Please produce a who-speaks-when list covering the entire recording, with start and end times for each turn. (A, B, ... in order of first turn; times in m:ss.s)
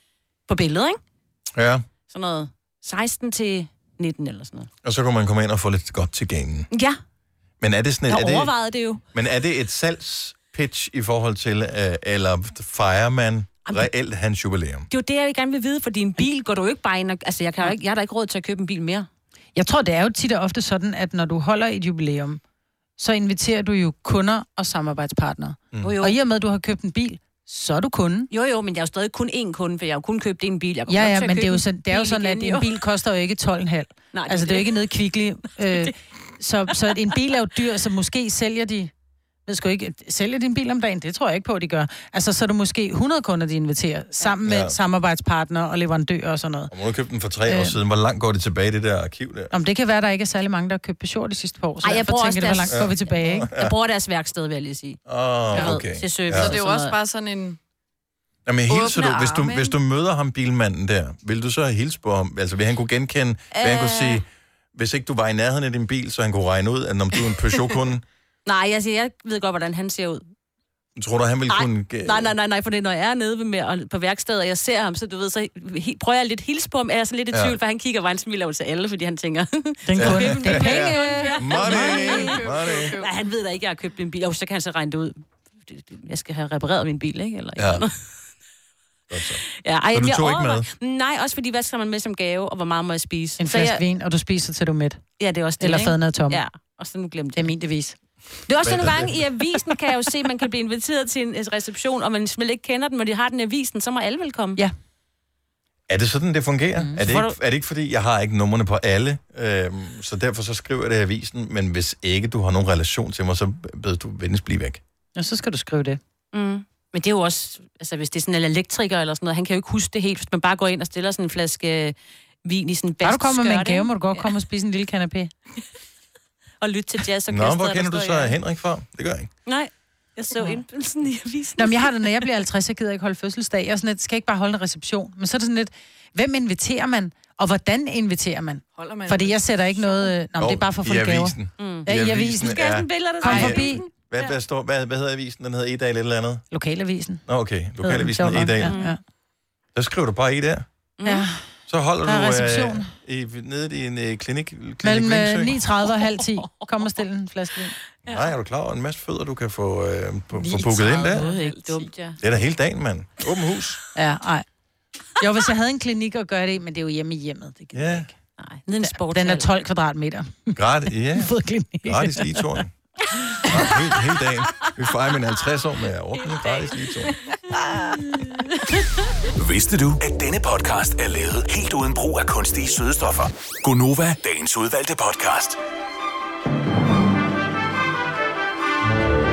0:00.5-0:01.0 A
0:01.6-0:01.8 B
0:02.1-0:04.7 A
0:04.8-0:06.7 B
0:06.7-0:07.0 A
0:07.6-0:08.5 B
0:08.1-0:09.0 A
0:09.1-0:14.9 B
0:14.9-0:19.1 A
0:19.5-0:22.4 C
0:23.0-0:28.3 C
0:25.8-0:26.2 A
0:28.3-0:32.7 A
0:30.9-0:38.9 C
0:34.1-0:34.8 A
0:39.4-0:46.7 C
0:44.4-0:44.8 B
0:46.7-0:49.5 B
0:47.5-0:47.8 C
0:49.5-0:53.5 C
0:51.8-0:57.0 A
0:52.7-0:53.7 B
0:55.1-0:56.6 B
0:56.3-0:57.6 D
0:58.5-1:04.2 B
0:58.7-0:59.7 D
1:03.5-1:04.2 A
1:04.7-1:08.0 B
1:08.4-1:10.2 A
1:11.0-1:12.3 B
1:11.5-1:27.9 A
1:19.8-1:20.9 C
1:20.0-1:22.9 B
1:20.9-1:23.1 D
1:27.6-1:27.8 B
1:29.1-1:30.6 B
1:29.6-1:33.8 A
1:33.4-1:35.0 C
1:35.2-1:37.5 A
1:35.6-1:36.4 C
1:37.4-1:38.0 C
1:38.5-1:44.6 A
1:38.6-1:39.2 B
1:45.9-1:54.8 B
1:47.0-1:47.3 A
1:55.2-1:56.0 C
1:56.3-2:04.3 A
2:03.0-2:05.3 C
2:06.6-2:08.4 A
2:07.3-2:09.3 B
2:09.4-2:12.3 A
2:11.6-2:21.3 C
2:18.7-2:20.0 D
2:20.4-2:26.4 B
2:21.6-2:21.9 A
2:21.8-2:22.6 C
2:22.4-2:23.8 A
2:23.2-2:23.9 C
2:26.5-2:27.2 C
2:27.3-2:28.8 B
2:27.8-2:29.0 C
2:28.6-2:29.0 A
2:29.7-2:30.6 B
2:31.0-2:31.2 A
2:31.0-2:31.4 C
2:31.7-2:35.6 B
2:32.0-2:32.9 C
2:34.8-2:37.7 C
2:38.1-2:41.3 B
2:40.4-2:41.6 C
2:40.8-2:42.2 A
2:42.2-2:43.8 B
2:43.9-2:44.4 C
2:45.2-2:48.1 C
2:47.7-2:48.1 B
2:48.4-2:49.5 A
2:48.8-2:50.6 C
2:50.6-2:51.3 B
2:51.2-2:52.4 C
2:51.9-2:52.7 B
2:53.5-2:57.1 B
2:56.2-2:56.6 A
2:59.4-3:05.6 E